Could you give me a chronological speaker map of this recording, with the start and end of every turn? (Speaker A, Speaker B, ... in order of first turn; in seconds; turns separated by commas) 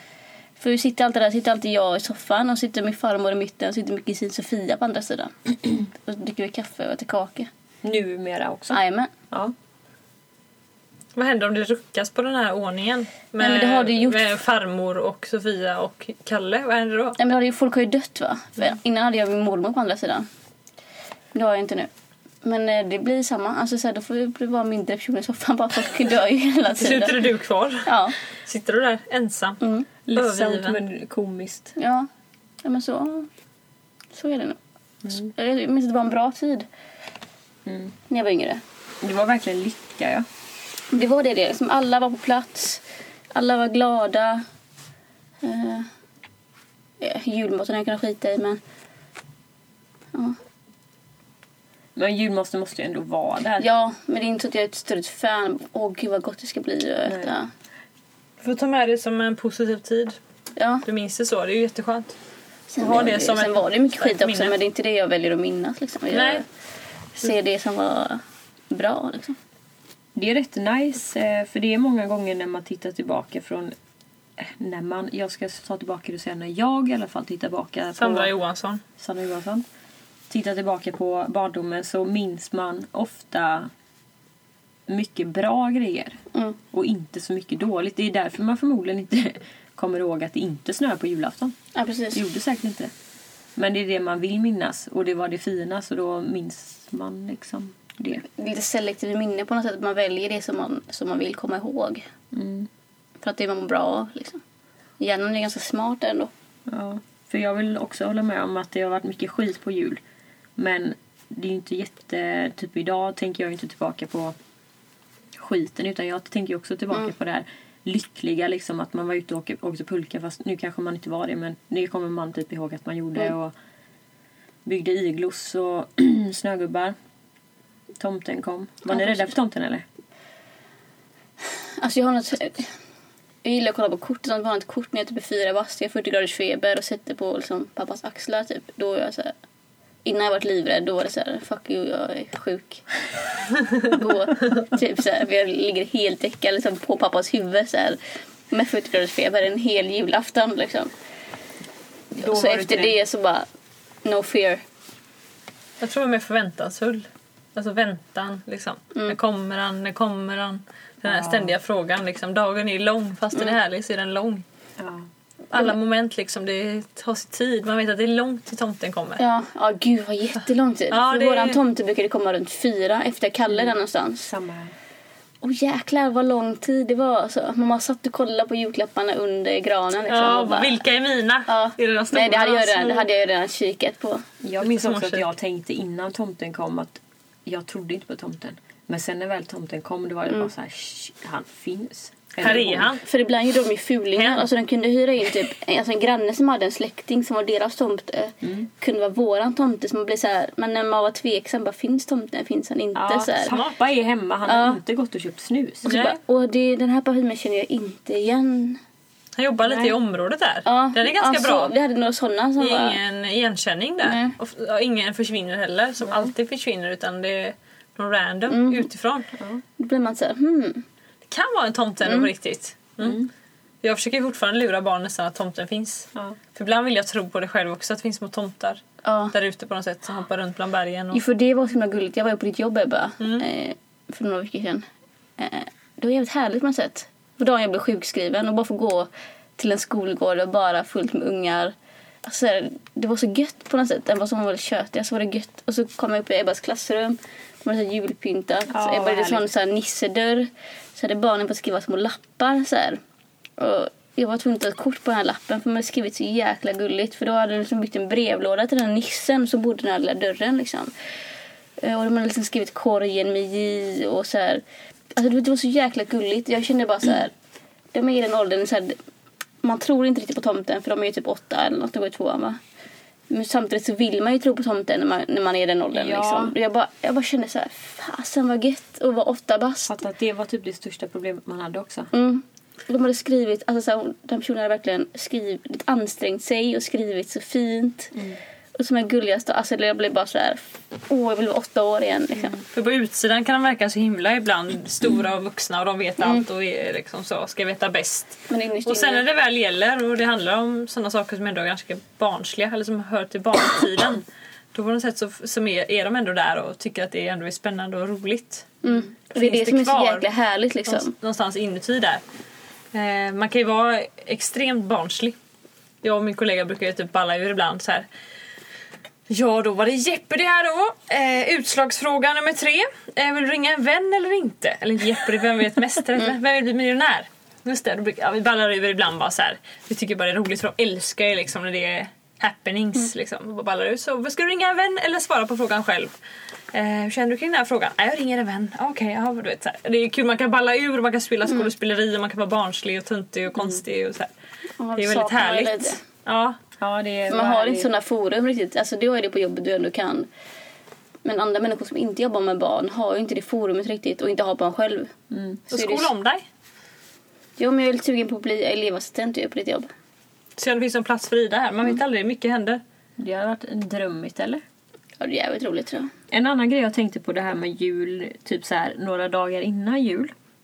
Speaker A: 0.6-7.5, Speaker B: 7.8-8.8, Speaker A: 8.7-9.1, Speaker C: 11.1-17.2, Speaker A: 13.4-14.2, Speaker A: 17.2-20.3, Speaker A: 21.3-21.9, Speaker A: 22.4-27.2, Speaker C: 26.8-27.9, Speaker A: 27.8-28.1, Speaker C: 28.4-29.6, Speaker A: 29.6-29.9, Speaker B: 30.1-31.7, Speaker C: 30.1-30.8, Speaker A: 31.8-32.1, Speaker A: 32.6-33.3, Speaker A: 34.1-36.7, Speaker B: 37.6-37.9, Speaker A: 38.1-38.6, Speaker B: 39.0-40.2, Speaker A: 40.9-42.8, Speaker A: 43.3-44.4, Speaker A: 45.4-45.9, Speaker A: 47.0-48.6, Speaker B: 52.0-53.6, Speaker A: 53.6-57.5, Speaker C: 58.4-60.1, Speaker A: 60.6-60.8, Speaker C: 60.8-62.1, Speaker A: 62.7-66.4, Speaker C: 62.8-64.5, Speaker C: 66.1-66.4, Speaker A: 67.2-69.4, Speaker B: 70.1-73.7, Speaker B: 74.4-78.3, Speaker C: 78.0-78.8, Speaker B: 79.0-79.6, Speaker B: 80.3-83.7, Speaker B: 84.9-86.2, Speaker B: 86.7-91.5, Speaker A: 91.7-92.2, Speaker B: 92.1-92.9, Speaker B: 93.5-98.2, Speaker A: 98.2-102.0, Speaker B: 102.3-102.7, Speaker A: 103.2-104.4, Speaker A: 105.0-106.3, Speaker B: 106.7-110.0, Speaker B: 110.6-114.3, Speaker B: 115.3-123.5, Speaker B: 124.6-126.9, Speaker B: 128.0-129.8, Speaker A: 128.9-129.3, Speaker A: 131.8-132.7, Speaker A: 133.4-139.3, Speaker A: 140.0-142.8, Speaker A: 143.7-148.0, Speaker A: 148.5-150.9, Speaker B: 152.2-153.0, Speaker A: 152.2-153.5, Speaker A: 154.0-154.6, Speaker C: 155.8-164.4, Speaker B: 161.0-161.5, Speaker B: 164.8-165.1, Speaker C: 165.5-169.2, Speaker A: 169.2-174.3, Speaker C: 170.9-171.6, Speaker B: 173.5-174.7, Speaker A: 175.4-180.8, Speaker C: 180.1-183.1, Speaker A: 181.5-184.2, Speaker B: 184.4-193.0, Speaker C: 184.6-185.3, Speaker C: 192.4-193.0, Speaker A: 193.0-203.6, Speaker C: 194.2-194.4, Speaker B: 198.4-198.7, Speaker B: 202.9-205.9, Speaker A: 204.4-204.8, Speaker A: 205.8-208.8, Speaker C: 205.9-206.2, Speaker C: 209.3-211.7, Speaker B: 209.6-209.9, Speaker A: 210.6-213.0, Speaker C: 212.6-219.3, Speaker A: 214.0-214.3, Speaker B: 216.1-216.3, Speaker A: 218.5-218.9, Speaker B: 219.3-219.6, Speaker A: 219.8-220.8, Speaker C: 221.3-223.2, Speaker A: 222.0-222.3, Speaker B: 223.0-223.3, Speaker C: 223.8-231.2, Speaker A: 229.0-229.3, Speaker A: 231.1-234.8, Speaker A: 235.4-253.0, Speaker B: 248.7-249.4, Speaker A: 253.6-260.9, Speaker A: 261.8-264.6, Speaker A: 265.1-267.3, Speaker A: 267.9-268.9, Speaker A: 269.6-272.6, Speaker A: 273.3-279.9, Speaker B: 275.9-276.5, Speaker B: 279.9-282.1, Speaker A: 282.1-288.1, Speaker A: 288.7-292.6, Speaker C: 292.7-310.2, Speaker A: 298.5-299.2, Speaker A: 308.8-311.1, Speaker C: 310.9-312.2, Speaker C: 312.9-315.4, Speaker C: 316.0-318.1, Speaker C: 319.3-336.1, Speaker C: 336.7-344.3, Speaker A: 344.8-346.0, Speaker C: 344.9-346.6, Speaker B: 346.8-347.9, Speaker A: 347.3-350.3, Speaker A: 351.2-355.1, Speaker B: 355.3-355.6, Speaker A: 355.7-356.1, Speaker C: 355.7-356.4, Speaker A: 357.6-359.9, Speaker C: 360.6-362.8, Speaker B: 363.2-364.6, Speaker A: 365.2-366.1, Speaker B: 366.3-370.3